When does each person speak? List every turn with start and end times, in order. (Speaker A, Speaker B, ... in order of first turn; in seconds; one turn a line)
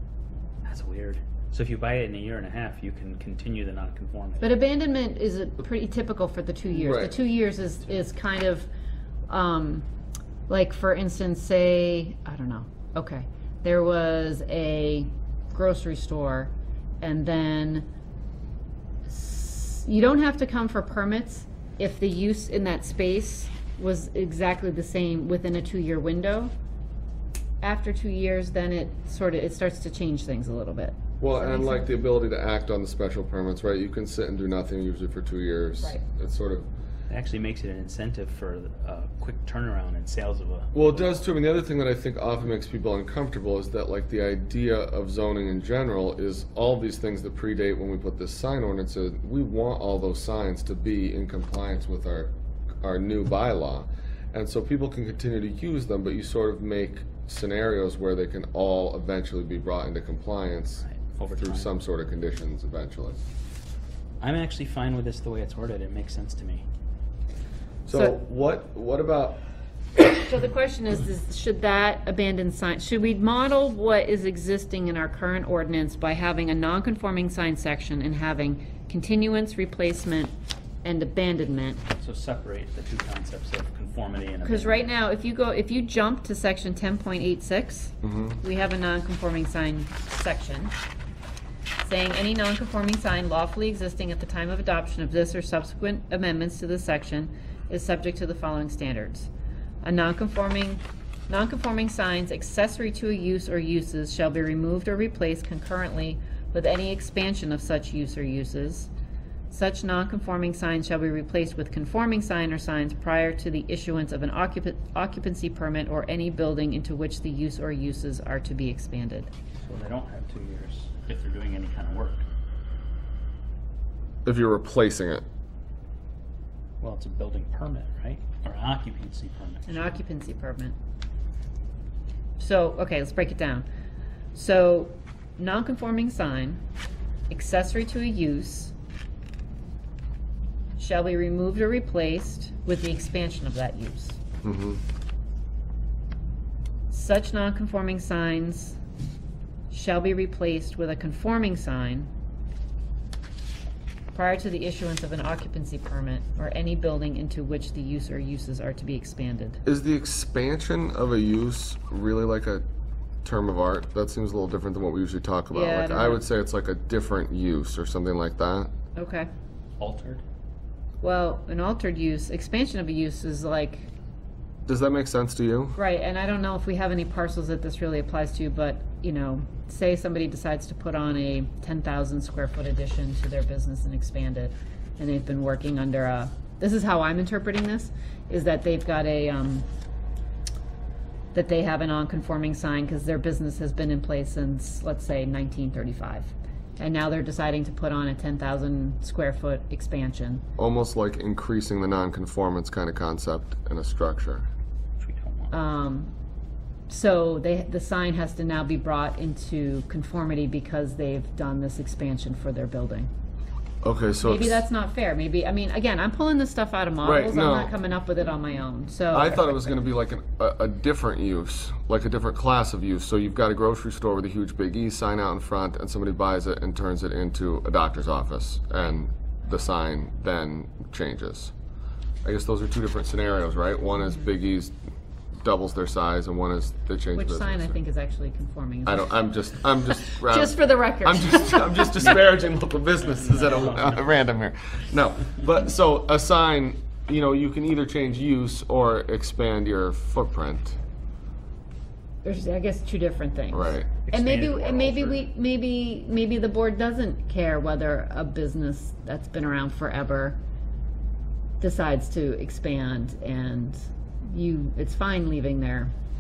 Speaker A: 0.7-4.6
Speaker B: 4.4-8.7
Speaker C: 6.8-7.2
Speaker B: 9.3-9.9
Speaker B: 10.5-17.9
Speaker B: 19.1-26.5
Speaker B: 27.6-31.9
Speaker C: 31.2-36.7
Speaker A: 37.1-41.2
Speaker C: 40.7-52.3
Speaker C: 52.8-60.8
Speaker A: 60.9-61.7
Speaker C: 61.4-63.2
Speaker A: 64.2-66.7
Speaker C: 67.9-69.4
Speaker B: 70.2-80.3
Speaker B: 80.8-81.8
Speaker A: 82.0-84.9
Speaker B: 84.4-90.7
Speaker C: 88.0-88.4
Speaker B: 91.8-99.3
Speaker B: 99.8-108.9
Speaker B: 109.5-119.3
Speaker A: 119.6-122.2
Speaker C: 124.2-125.2
Speaker A: 126.8-130.0
Speaker B: 129.7-130.8
Speaker B: 132.4-133.7
Speaker B: 134.3-136.6
Speaker B: 137.3-138.7
Speaker B: 140.8-144.2
Speaker C: 144.4-144.8
Speaker B: 146.9-148.8
Speaker B: 149.7-152.1
Speaker B: 154.1-159.6
Speaker C: 159.7-162.6
Speaker C: 163.2-168.7
Speaker B: 165.5-166.2
Speaker B: 169.0-169.3
Speaker A: 169.8-170.2
Speaker B: 171.0-173.9
Speaker C: 174.7-175.8
Speaker B: 175.8-189.7
Speaker B: 191.3-200.4
Speaker C: 200.6-204.5
Speaker A: 205.0-205.5
Speaker B: 205.5-206.1
Speaker B: 206.9-213.1
Speaker C: 213.8-214.7
Speaker B: 214.2-219.7
Speaker C: 217.0-217.8
Speaker C: 219.1-231.5
Speaker C: 232.2-234.8
Speaker C: 235.4-237.8
Speaker B: 237.1-239.2
Speaker C: 238.9-250.8
Speaker B: 240.0-242.2
Speaker A: 243.0-244.1
Speaker B: 252.2-260.4
Speaker C: 253.5-255.2
Speaker A: 254.1-254.6
Speaker B: 261.6-265.9